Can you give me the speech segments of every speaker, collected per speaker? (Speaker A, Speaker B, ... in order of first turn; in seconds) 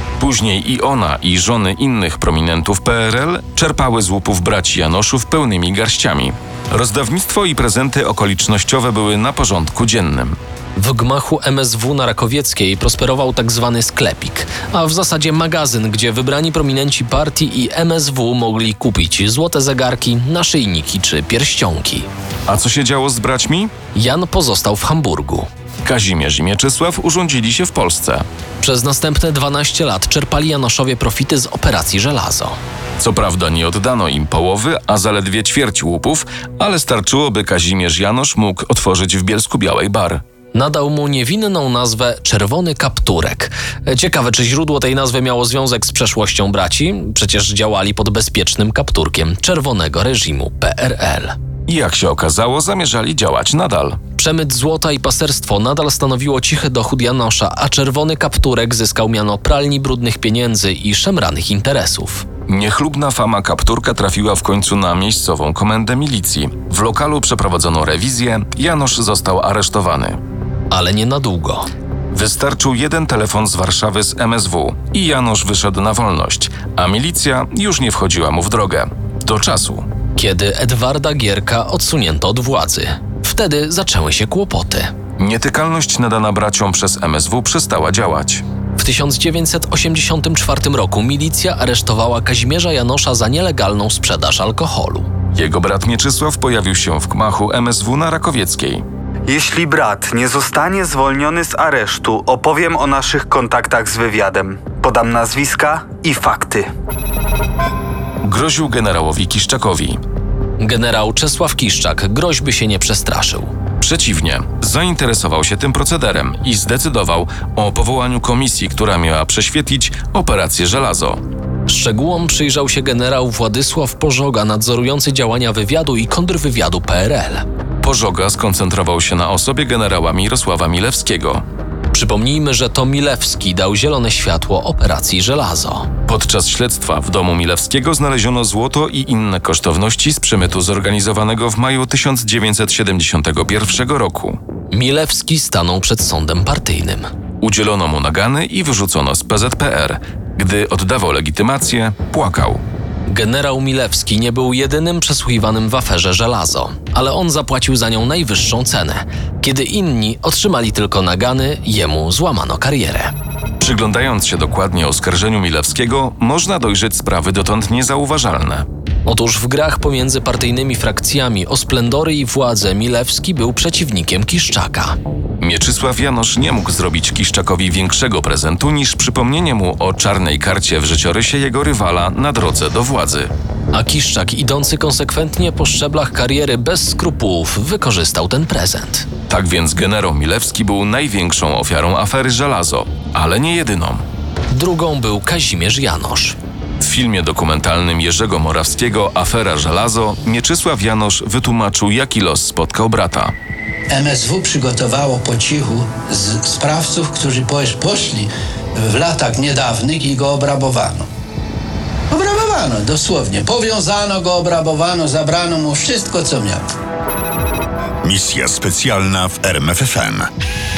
Speaker A: 0.2-10.4, 22.5-23.7, 25.8-28.2, 33.0-40.2, 51.7-54.0, 62.5-70.2, 72.1-79.9, 85.2-88.4, 95.3-98.8, 108.2-110.0, 113.8-121.2, 127.8-131.4, 136.1-144.4, 147.4-152.6, 163.6-168.7, 175.4-183.3, 189.3-194.1, 196.8-203.3
Speaker B: 10.8-22.1, 23.9-25.5, 28.6-32.6, 40.5-51.4, 54.2-62.3, 70.7-71.7, 80.2-84.9, 88.8-95.1, 110.6-113.5, 121.7-127.5, 131.9-135.9, 144.7-147.1, 153.1-163.1, 169.1-175.0, 183.7-189.1, 194.5-196.4
Speaker C: 99.3-106.7
Speaker D: 203.9-211.1, 212.1-216.7
Speaker E: 218.0-220.3